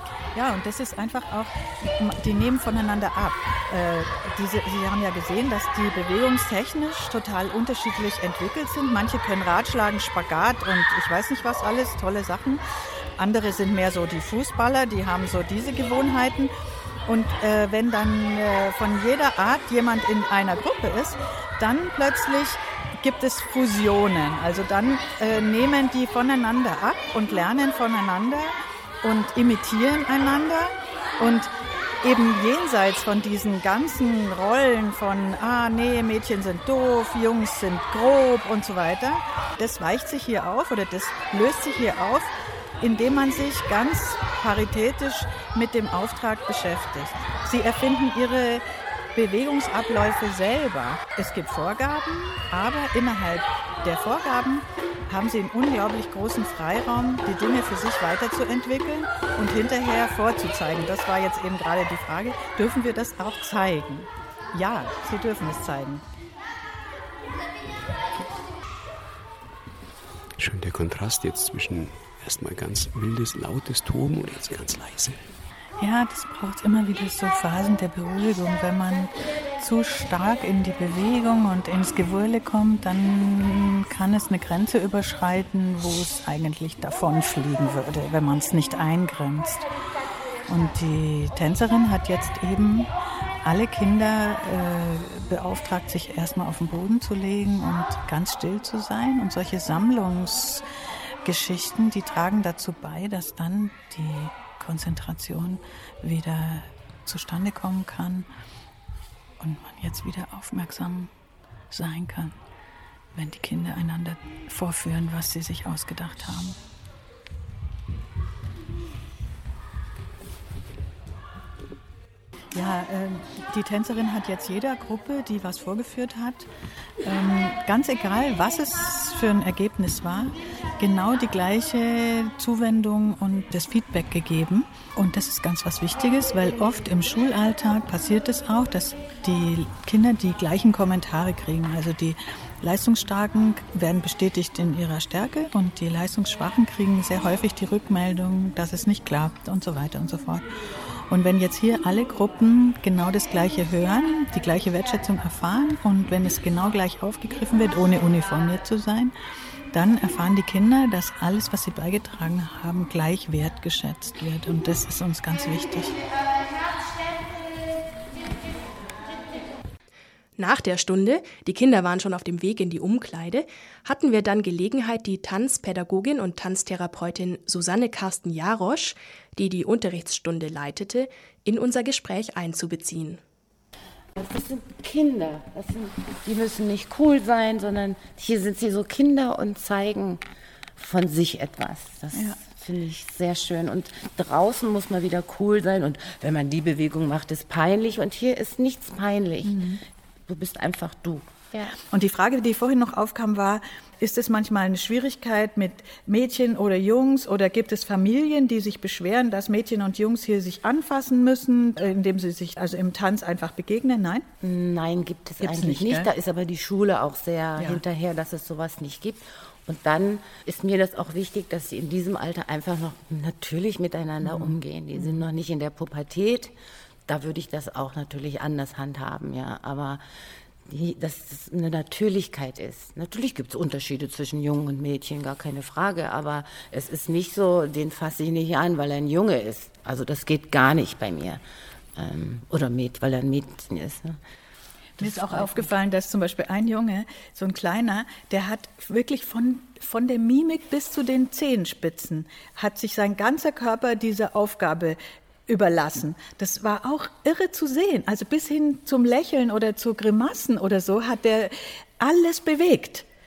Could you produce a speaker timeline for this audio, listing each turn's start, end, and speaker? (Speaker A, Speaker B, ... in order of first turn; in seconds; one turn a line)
Speaker A: 0.3-12.6
Speaker A: 13.2-16.5
Speaker A: 17.1-48.6
Speaker A: 49.1-66.0
Speaker B: 70.4-75.2
Speaker A: 75.8-89.6
Speaker A: 90.5-92.9
Speaker A: 93.4-100.6
Speaker A: 101.2-108.3
Speaker A: 109.4-111.1
Speaker A: 111.7-112.3
Speaker A: 113.1-116.6
Speaker A: 122.5-126.5
Speaker A: 127.0-150.5
Speaker A: 151.1-159.1
Speaker A: 159.7-165.9
Speaker C: 170.4-183.2
Speaker D: 184.2-190.2
Speaker D: 190.8-199.7
Speaker A: 192.1-192.4
Speaker A: 199.4-199.8
Speaker D: 200.3-201.8
Speaker A: 201.8-214.3
Speaker D: 214.4-226.5
Speaker A: 215.4-216.1
Speaker A: 217.6-217.8
Speaker A: 224.2-225.2
Speaker D: 227.1-230.0
Speaker D: 230.6-241.4
Speaker D: 241.9-244.2
Speaker A: 245.0-263.0
Speaker D: 245.0-245.7